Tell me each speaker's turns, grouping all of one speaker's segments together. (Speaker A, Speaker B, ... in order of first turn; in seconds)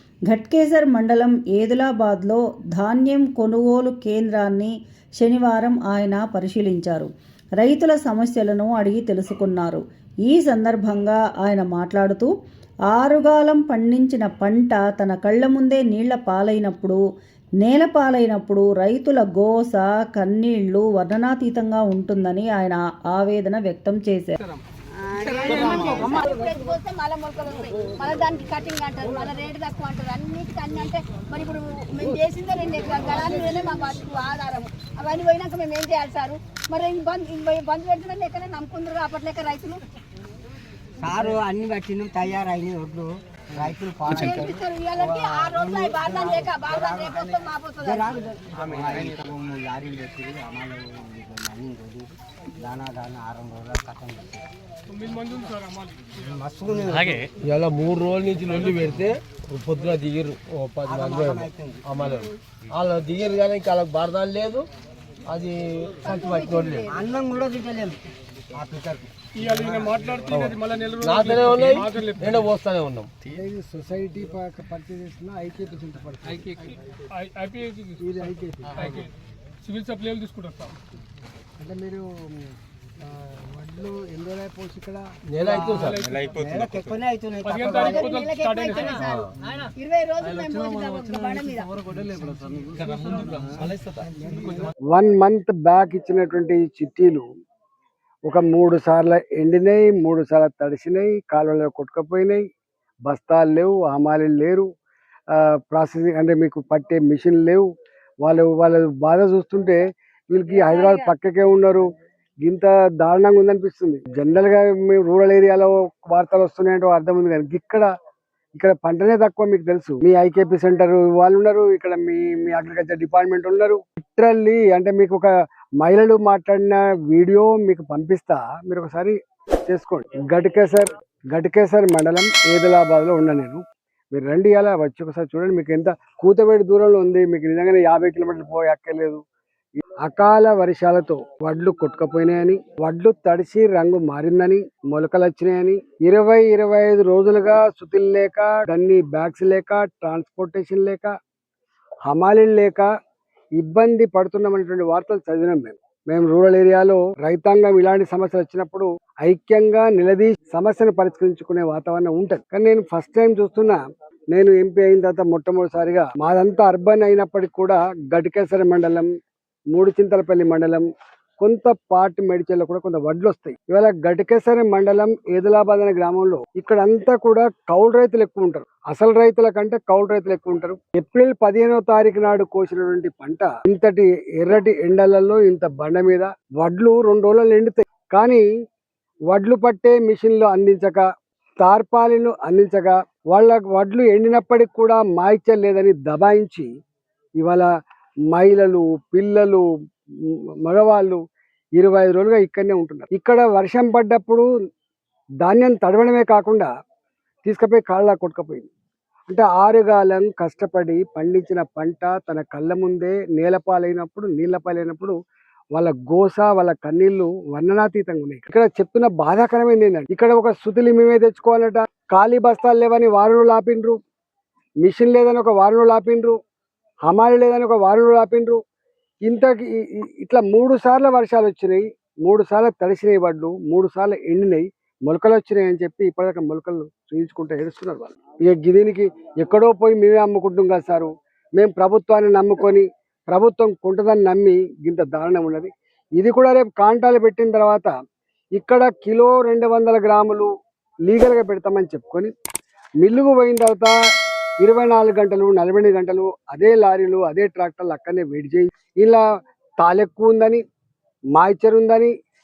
Speaker A: 0.3-12.3, 12.9-17.0, 17.6-24.4
Speaker B: 25.1-39.8, 44.0-48.2, 66.1-66.8, 87.7-91.7
Speaker C: 25.4-26.0, 54.9-56.0, 69.4-72.4, 76.3-78.0, 78.8-79.1, 79.6-80.8, 85.7-86.3, 87.4-89.1, 93.0-93.4
Speaker D: 25.7-26.2, 41.0-54.5, 56.2-57.3, 60.8-61.9, 66.8-68.0, 68.5-70.0, 86.4-88.1, 91.9-92.8, 93.4-94.6
Speaker E: 57.4-64.7, 65.3-66.9, 70.3-73.1, 85.3-86.1, 88.9-89.2, 92.9-94.0
Speaker F: 73.2-76.5, 78.0-79.0, 81.6-82.1, 83.2-85.1, 94.9-97.2, 98.3-102.4, 103.1-104.7, 105.3-107.7, 108.2-111.8, 112.4-117.9, 118.5-129.2, 129.7-139.2, 140.0-151.1, 152.1-152.9, 153.6-163.8, 164.3-169.1, 169.7-170.9, 171.4-188.4, 189.3-191.0, 191.6-196.7, 197.4-197.7, 198.3-199.6, 200.3-201.2, 201.8-204.4, 205.4-206.7, 207.4-208.7, 209.3-215.1, 215.7-224.0, 224.8-226.3, 227.1-228.6, 229.2-247.9, 248.6-250.5, 251.1-252.3, 253.0-253.9, 254.6-259.2, 259.8-260.6, 261.3-262.1